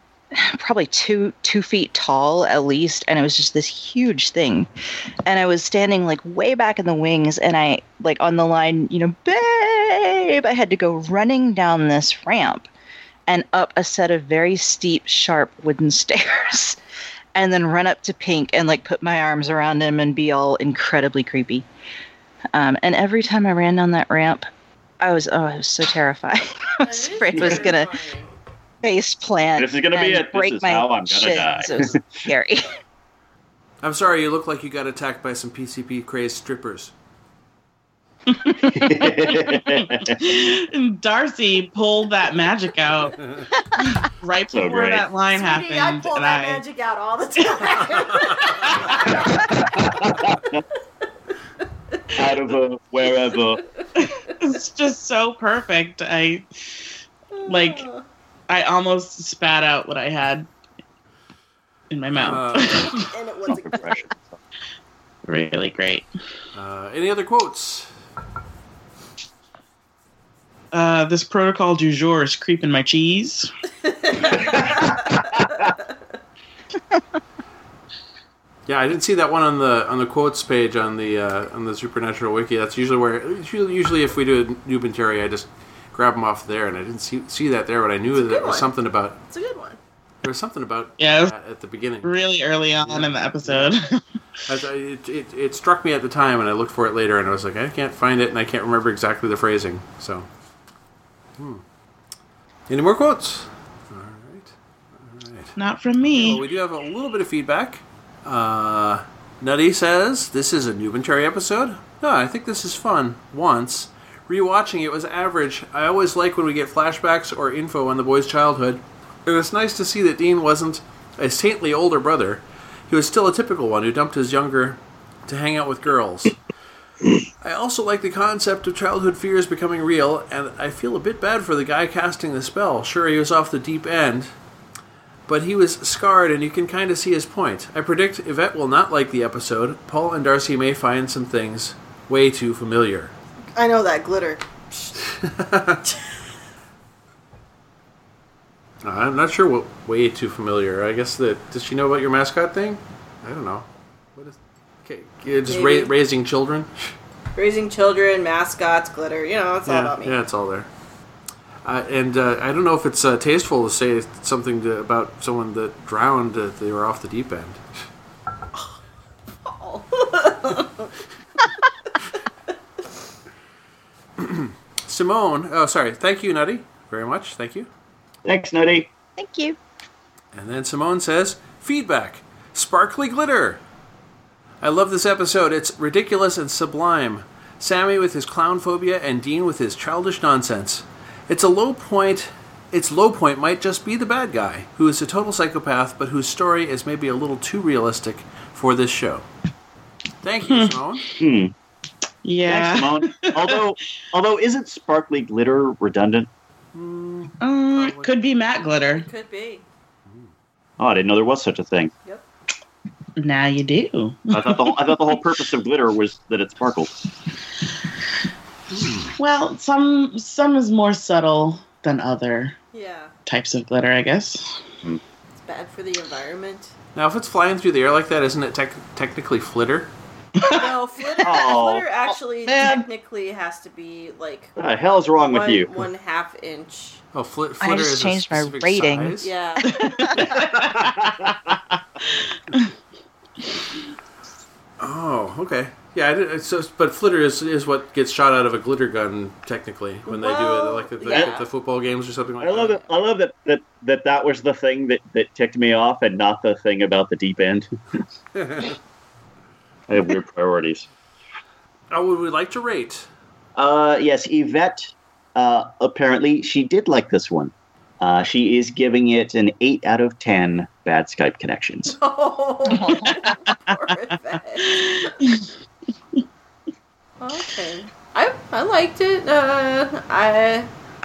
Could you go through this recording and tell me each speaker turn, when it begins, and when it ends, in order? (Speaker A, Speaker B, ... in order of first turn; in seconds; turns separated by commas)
Speaker A: 0.3-4.7, Speaker A: 5.2-12.7, Speaker A: 13.3-16.8, Speaker A: 17.3-21.6, Speaker A: 22.5-24.5, Speaker A: 25.0-27.9, Speaker B: 26.8-28.3, Speaker C: 27.4-27.6, Speaker A: 28.8-32.7, Speaker C: 29.6-32.3, Speaker D: 33.8-36.9, Speaker E: 38.3-43.2, Speaker C: 38.7-40.2, Speaker D: 43.2-43.4, Speaker E: 43.7-46.6, Speaker C: 44.5-45.0, Speaker B: 45.3-50.3, Speaker C: 49.0-50.6, Speaker C: 52.1-53.6, Speaker B: 53.5-53.8, Speaker E: 54.0-56.5, Speaker B: 57.3-58.0, Speaker E: 57.5-57.9, Speaker E: 58.5-60.5, Speaker E: 61.9-63.0, Speaker D: 62.1-63.0, Speaker B: 62.8-64.1, Speaker C: 63.5-64.1, Speaker E: 65.3-66.1, Speaker D: 66.5-67.9, Speaker E: 70.7-73.5, Speaker B: 73.8-75.9, Speaker C: 74.3-75.6, Speaker D: 78.7-89.2, Speaker B: 88.1-88.7, Speaker B: 89.3-89.8, Speaker D: 90.2-92.1, Speaker E: 91.0-91.3, Speaker E: 92.0-94.0, Speaker D: 92.8-93.8, Speaker D: 94.4-100.3, Speaker D: 101.4-101.6, Speaker D: 102.7-126.4, Speaker E: 105.5-106.4, Speaker D: 127.4-134.3, Speaker D: 135.3-143.1, Speaker B: 143.5-144.9, Speaker D: 145.0-145.9, Speaker D: 148.8-156.9, Speaker B: 155.5-155.9, Speaker B: 157.3-160.2, Speaker D: 159.7-160.7, Speaker D: 161.6-167.8, Speaker B: 169.4-170.9, Speaker D: 174.2-177.7, Speaker C: 178.2-178.9, Speaker A: 179.2-179.6, Speaker D: 180.3-183.6, Speaker D: 184.6-199.2, Speaker D: 200.2-201.1, Speaker E: 200.5-200.8, Speaker C: 201.2-201.5, Speaker E: 202.2-203.6, Speaker C: 202.4-206.3, Speaker D: 206.7-208.1, Speaker E: 207.4-209.1, Speaker B: 208.9-209.6, Speaker C: 210.8-211.9, Speaker E: 213.2-214.9, Speaker C: 214.3-216.9, Speaker D: 218.7-219.1, Speaker E: 219.2-222.5, Speaker B: 222.7-223.1, Speaker E: 223.2-224.6, Speaker B: 225.4-226.7, Speaker D: 226.9-229.9, Speaker E: 230.3-230.7, Speaker B: 230.4-234.5, Speaker C: 231.2-232.2, Speaker C: 234.6-235.9, Speaker B: 235.2-237.0, Speaker D: 237.1-239.3, Speaker A: 237.6-240.3, Speaker B: 239.2-240.2, Speaker E: 239.7-242.7, Speaker C: 240.6-241.5, Speaker D: 244.8-252.8, Speaker B: 250.1-251.5, Speaker C: 252.4-257.7, Speaker D: 258.3-258.7, Speaker C: 259.9-260.9, Speaker D: 261.9-263.1, Speaker C: 263.6-272.0, Speaker B: 271.9-275.1, Speaker A: 272.6-273.2, Speaker E: 272.9-273.6, Speaker E: 274.6-275.5, Speaker B: 277.2-280.7